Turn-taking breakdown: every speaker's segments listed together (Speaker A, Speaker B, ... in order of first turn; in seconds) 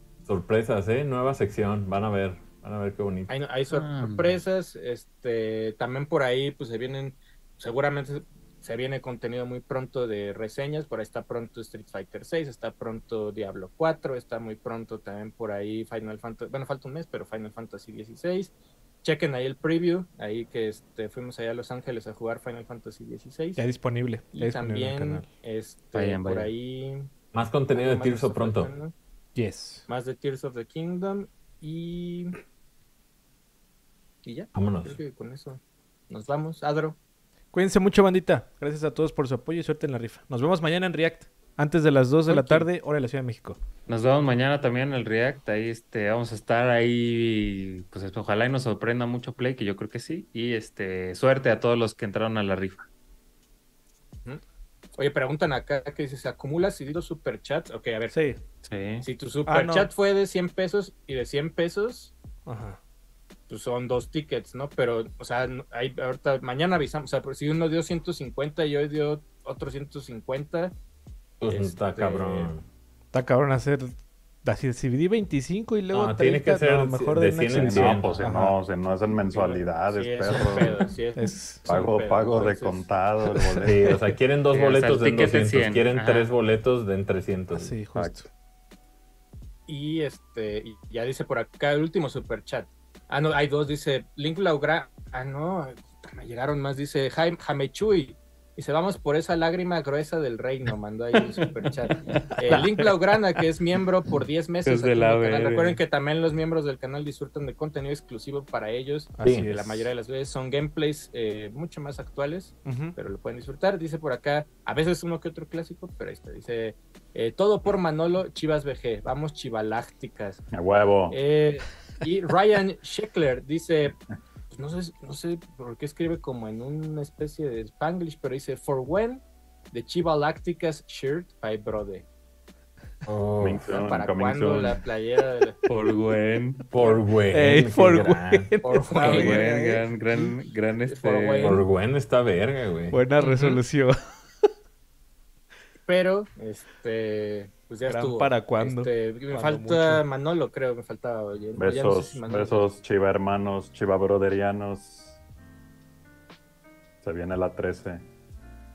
Speaker A: 0.2-3.3, 27.3-28.7, 34.5-35.0, 71.4-72.7, 75.9-78.2, 83.6-87.8, 109.2-109.5, 133.1-133.7, 136.7-138.5, 141.4-143.0
Speaker B: 3.3-18.5, 19.0-23.6, 24.3-27.1, 27.7-28.9, 29.9-32.3, 34.2-37.0, 55.0-58.2, 59.0-62.1, 63.5-70.7, 71.5-72.5, 79.3-82.9, 89.7-120.4, 121.1-124.0, 124.5-132.1, 133.7-135.6, 138.6-139.5, 140.9-141.7, 145.9-152.7
Speaker C: 3.7-4.4, 25.9-26.5, 42.3-42.6, 43.9-52.9, 58.7-59.1, 84.5-86.3, 104.7-105.8, 135.7-136.7, 139.0-141.6, 143.2-143.6
Speaker D: 23.6-25.3, 29.4-29.9, 37.5-43.6, 58.1-58.4, 59.5-59.9, 62.5-62.8, 73.1-78.6, 81.2-81.6, 83.5-84.0, 87.5-88.3, 102.5-103.0, 109.2-109.9, 112.7-113.0, 137.3-140.2, 142.9-144.0, 147.9-150.0
Speaker E: 77.5-80.9, 81.7-83.9, 87.9-88.2, 120.5-121.2, 133.4-134.8, 151.6-155.2, 157.0-158.0